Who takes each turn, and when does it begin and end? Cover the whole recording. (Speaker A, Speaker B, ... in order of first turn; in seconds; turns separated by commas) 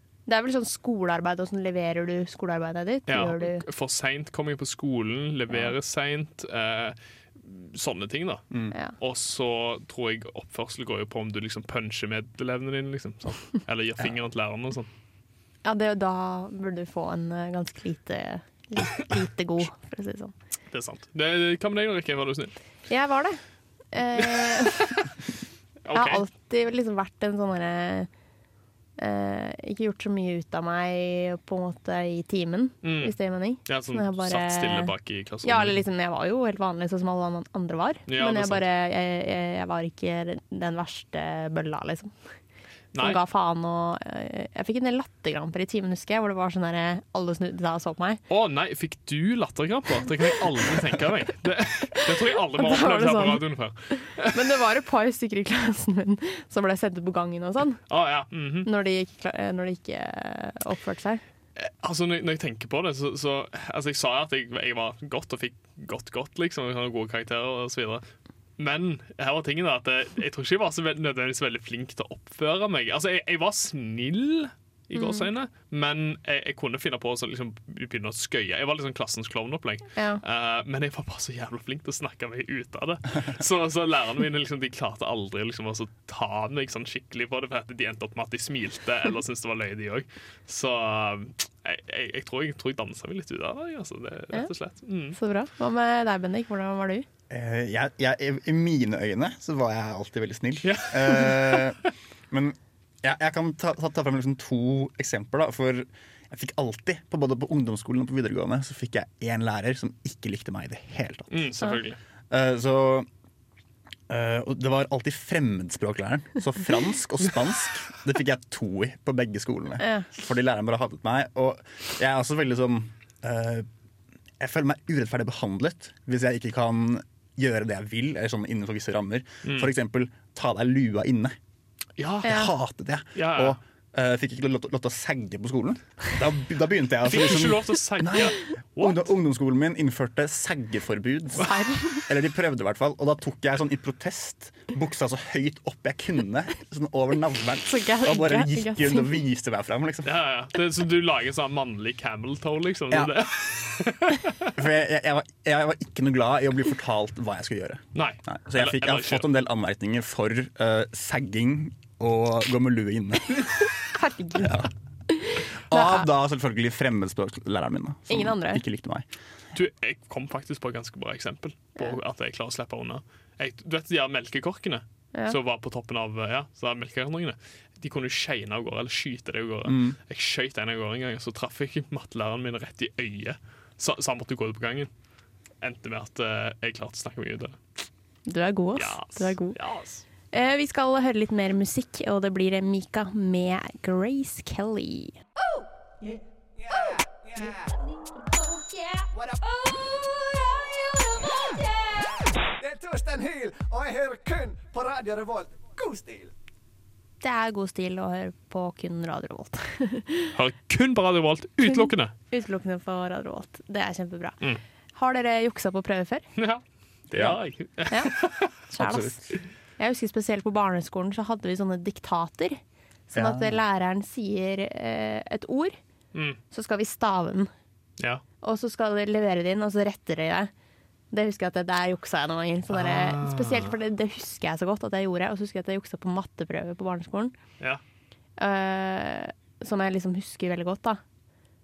Speaker A: 0.3-3.6, Speaker B: 3.1-8.4, Speaker B: 9.0-14.9, Speaker A: 15.6-20.3, Speaker B: 20.7-22.6, Speaker A: 22.9-23.4, Speaker A: 23.9-24.9, Speaker B: 24.2-25.1, Speaker B: 25.9-26.2, Speaker A: 25.9-28.1, Speaker A: 29.0-34.9, Speaker B: 32.8-35.8, Speaker A: 35.4-42.1, Speaker B: 38.1-38.6, Speaker B: 42.9-43.2, Speaker A: 43.0-48.2, Speaker B: 48.3-54.5, Speaker A: 52.0-57.8, Speaker B: 57.9-58.7, Speaker A: 58.6-61.2, Speaker B: 61.6-68.0, Speaker B: 68.6-95.2, Speaker A: 75.0-75.3, Speaker A: 80.0-80.2, Speaker A: 95.1-97.1, Speaker C: 97.3-111.5, Speaker B: 100.6-101.7, Speaker B: 111.3-112.0, Speaker C: 112.3-113.1, Speaker C: 114.1-123.7, Speaker A: 119.8-120.1, Speaker C: 124.4-131.4, Speaker B: 129.4-129.7, Speaker B: 132.0-132.5, Speaker A: 132.2-132.5, Speaker C: 132.2-150.2, Speaker B: 133.2-133.6, Speaker B: 137.1-139.0, Speaker A: 141.4-142.1, Speaker A: 147.7-149.2, Speaker B: 150.1-154.6, Speaker C: 154.5-163.6, Speaker B: 157.9-159.3, Speaker A: 163.9-166.1, Speaker C: 164.4-164.7, Speaker C: 165.7-169.1, Speaker A: 168.1-168.6, Speaker B: 169.5-184.9, Speaker C: 179.7-180.0, Speaker B: 185.6-187.6, Speaker A: 188.3-189.6, Speaker B: 188.8-190.0, Speaker A: 190.3-195.2, Speaker A: 196.8-197.6, Speaker A: 198.4-199.1, Speaker A: 200.8-201.6, Speaker D: 202.6-206.3, Speaker A: 207.2-210.3, Speaker B: 210.3-212.1, Speaker A: 211.6-214.4, Speaker A: 214.9-216.3, Speaker B: 216.4-218.6, Speaker C: 217.1-217.4, Speaker A: 218.7-222.6, Speaker C: 218.8-219.3, Speaker A: 223.1-225.8, Speaker C: 223.1-223.6, Speaker A: 226.5-227.5, Speaker A: 228.4-230.5, Speaker A: 231.1-237.3, Speaker B: 232.7-233.8, Speaker A: 238.4-241.0